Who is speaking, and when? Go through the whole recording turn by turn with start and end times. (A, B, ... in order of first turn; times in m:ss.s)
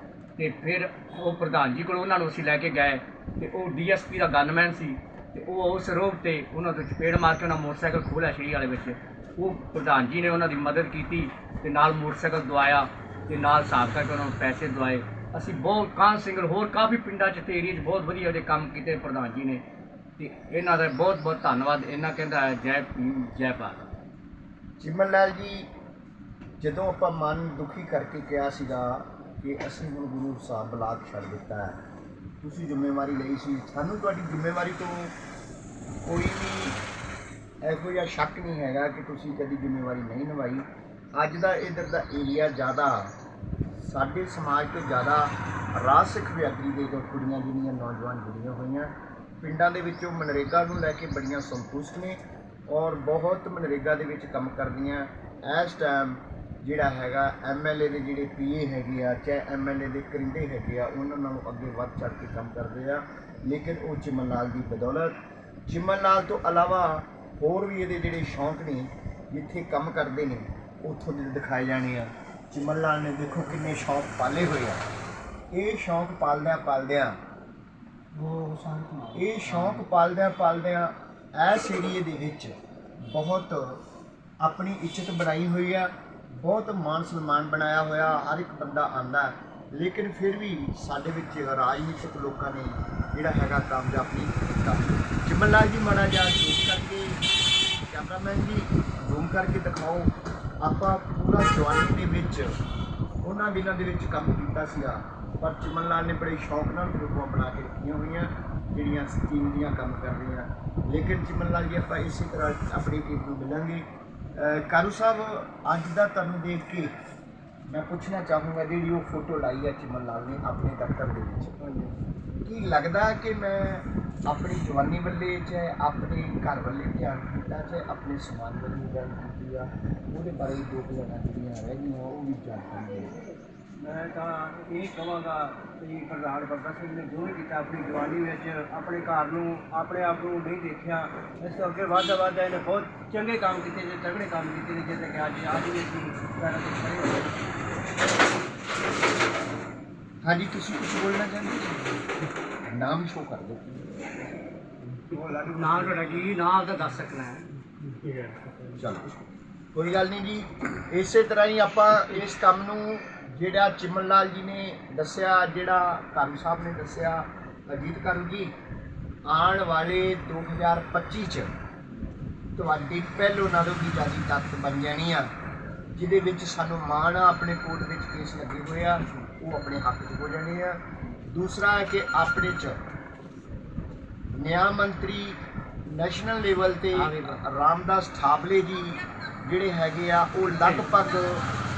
0:00.4-0:19.6 A
0:20.2-0:23.8 A
0:24.8-0:25.7 B
0:26.6-0:31.8 B
0:32.4-0:35.1 B
0:36.0-0:36.8 B
0:37.6-0:43.1 B
0:43.8-1:14.9 B
1:15.5-1:17.2 B
1:18.1-1:19.8 A
1:19.1-1:23.8 B
1:24.4-1:37.2 B
1:37.8-1:42.6 B
1:43.2-1:56.9 B
1:57.7-2:01.6 B
2:01.6-2:02.0 C
2:02.4-2:13.2 B
2:13.8-2:27.4 C
2:30.2-2:32.0 B
2:32.7-2:33.9 B
2:35.1-2:36.4 C
2:35.5-2:38.8 A
2:38.8-2:39.1 B
2:39.7-2:48.5 B
2:49.2-2:51.5 B
2:52.6-2:55.3 B
2:55.9-3:02.8 B
3:04.3-3:11.4 B
3:06.9-3:07.4 A
3:10.6-3:11.0 A